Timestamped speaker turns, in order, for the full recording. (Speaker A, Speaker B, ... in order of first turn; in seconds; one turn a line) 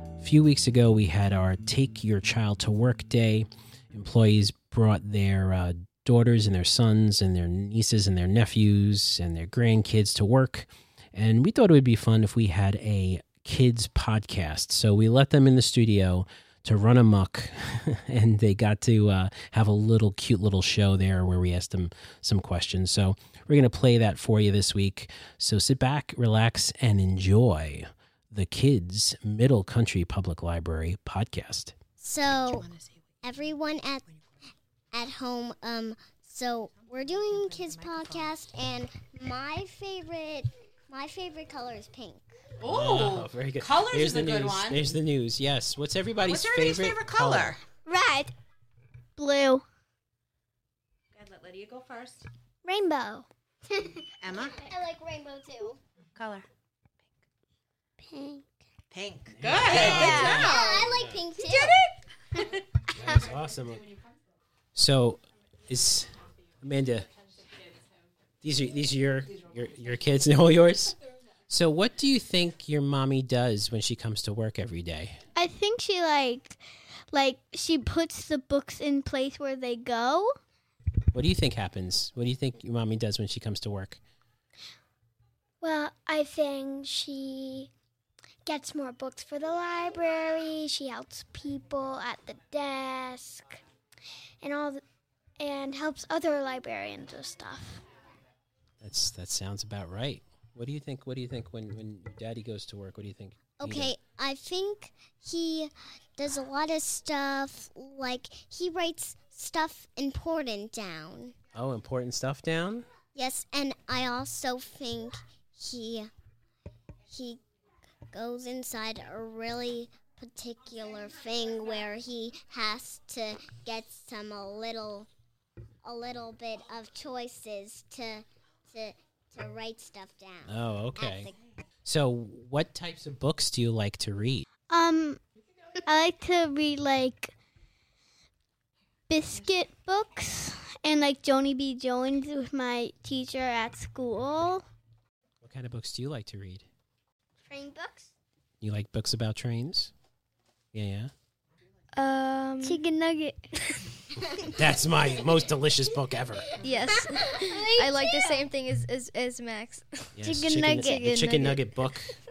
Speaker A: 0.2-31.8
Speaker B: 32.0-32.7
Speaker C: 32.3-33.2
Speaker B: 33.2-34.0
Speaker B: 34.9-42.4
Speaker C: 37.3-38.3
Speaker C: 42.6-45.0
Speaker A: 42.6-47.6
Speaker C: 46.2-47.6
Speaker D: 47.9-48.3
Speaker D: 49.2-49.6
Speaker C: 51.1-52.2
Speaker D: 52.6-54.0
Speaker C: 54.2-54.7
Speaker D: 54.6-55.8
Speaker C: 56.1-56.5
Speaker D: 58.1-58.4
Speaker C: 58.9-60.7
Speaker A: 59.3-61.2
Speaker D: 59.8-60.7
Speaker B: 59.9-61.7
Speaker D: 61.4-61.8
Speaker A: 62.9-63.9
Speaker A: 64.8-67.1
Speaker A: 68.4-71.0
Speaker A: 71.5-75.2
Speaker D: 75.4-76.5
Speaker E: 77.1-77.8
Speaker D: 77.2-77.6
Speaker D: 79.5-80.3
Speaker A: 81.1-84.0
Speaker D: 85.6-87.7
Speaker D: 88.5-93.6
Speaker D: 94.4-94.8
Speaker D: 95.4-97.8
Speaker A: 98.8-104.0
Speaker B: 103.6-111.3
Speaker A: 111.5-112.9
Speaker B: 113.1-116.1
Speaker B: 117.1-117.4
Speaker B: 118.1-125.1
Speaker B: 125.8-131.3
Speaker A: 130.5-131.3
Speaker A: 131.8-134.5
Speaker D: 134.7-135.2
Speaker D: 135.9-137.3
Speaker D: 139.1-144.7
Speaker A: 145.4-146.7
Speaker D: 147.5-148.1
Speaker A: 148.6-149.9
Speaker A: 150.7-151.1
Speaker E: 151.9-152.8
Speaker D: 152.6-153.5
Speaker A: 154.6-156.6
Speaker E: 156.6-161.7
Speaker B: 156.9-158.1
Speaker A: 160.2-162.2